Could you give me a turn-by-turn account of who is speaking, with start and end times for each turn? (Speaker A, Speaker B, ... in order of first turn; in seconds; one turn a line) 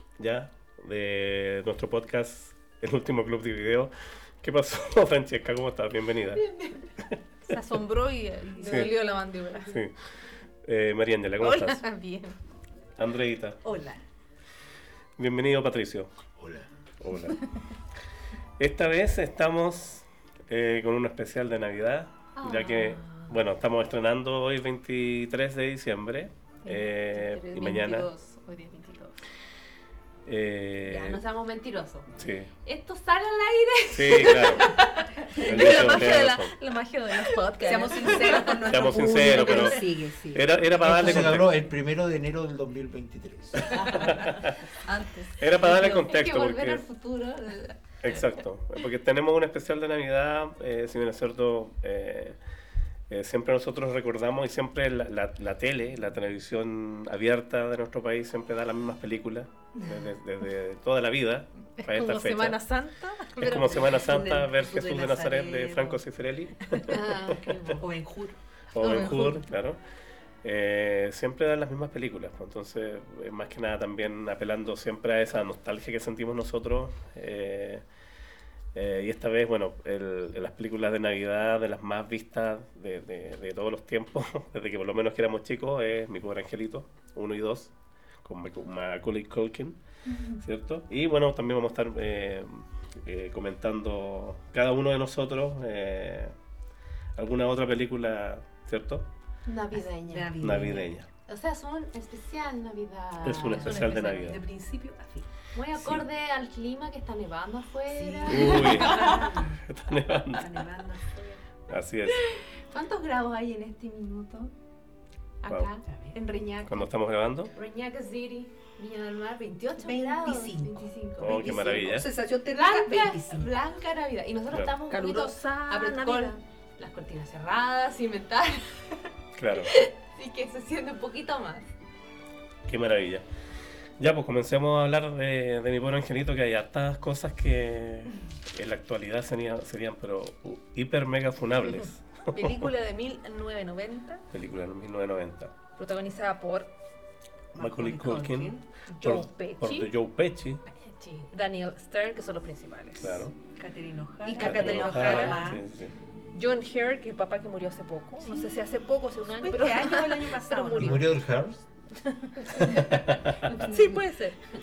Speaker A: 0.2-6.4
Speaker B: 6.3-6.8
Speaker C: 7.5-9.8
Speaker D: 8.6-8.9
Speaker A: 8.6-8.9
Speaker A: 9.7-9.9
Speaker A: 10.6-11.8
Speaker C: 11.4-12.4
Speaker A: 13.0-13.6
Speaker D: 13.6-14.0
Speaker A: 15.2-16.1
Speaker E: 16.4-16.7
Speaker A: 17.0-17.4
Speaker A: 18.6-28.1
Speaker B: 22.4-23.4
Speaker B: 26.7-28.1
Speaker C: 26.7-29.2
Speaker A: 30.3-31.2
Speaker B: 30.9-32.0
Speaker A: 32.2-32.5
Speaker B: 32.6-35.9
Speaker A: 33.9-34.7
Speaker C: 34.6-38.5
Speaker D: 35.4-36.0
Speaker A: 35.5-36.5
Speaker D: 37.6-41.4
Speaker A: 38.1-41.5
Speaker E: 40.8-43.7
Speaker B: 43.8-44.2
Speaker A: 43.9-44.6
Speaker B: 44.9-47.8
Speaker A: 45.4-46.9
Speaker A: 48.0-52.4
Speaker A: 53.1-62.6
Speaker C: 61.8-63.9
Speaker A: 63.4-67.8
Speaker D: 63.4-66.0
Speaker C: 66.8-67.4
Speaker B: 66.9-67.8
Speaker D: 67.8-68.4
Speaker A: 68.7-69.8
Speaker C: 68.8-69.4
Speaker A: 70.4-77.8
Speaker A: 78.8-87.7
Speaker A: 88.2-89.8
Speaker A: 90.4-96.3
Speaker A: 97.2-99.1
Speaker B: 99.5-100.4
Speaker D: 100.1-101.0
Speaker A: 100.4-101.1
Speaker B: 101.3-104.6
Speaker A: 103.2-104.4
Speaker D: 103.6-105.3
Speaker B: 105.5-109.2
Speaker A: 105.8-106.0
Speaker D: 107.9-109.6
Speaker A: 108.3-109.1
Speaker A: 109.7-110.5
Speaker D: 110.3-111.1
Speaker B: 111.0-111.3
Speaker A: 111.7-112.3
Speaker B: 112.1-114.5
Speaker B: 115.4-116.9
Speaker A: 115.5-115.7
Speaker D: 115.9-116.2
Speaker A: 116.7-117.5
Speaker B: 117.5-121.8
Speaker D: 119.8-123.5
Speaker A: 121.2-122.1
Speaker B: 122.5-129.1
Speaker C: 124.9-126.4
Speaker A: 129.4-129.7
Speaker B: 129.6-131.7
Speaker A: 132.7-133.2
Speaker A: 134.0-142.7
Speaker C: 142.3-144.2
Speaker A: 144.3-145.5
Speaker C: 145.8-146.7
Speaker D: 147.5-149.2
Speaker A: 147.6-150.6
Speaker C: 149.0-149.9
Speaker B: 150.9-151.3
Speaker C: 151.3-153.3
Speaker A: 153.0-153.3
Speaker D: 153.6-155.6
Speaker C: 154.2-155.5
Speaker A: 154.4-155.9
Speaker C: 156.3-161.0
Speaker D: 159.3-161.0
Speaker E: 160.8-161.6
Speaker C: 162.1-163.0
Speaker A: 163.1-163.3
Speaker D: 163.4-164.0
Speaker C: 163.6-164.4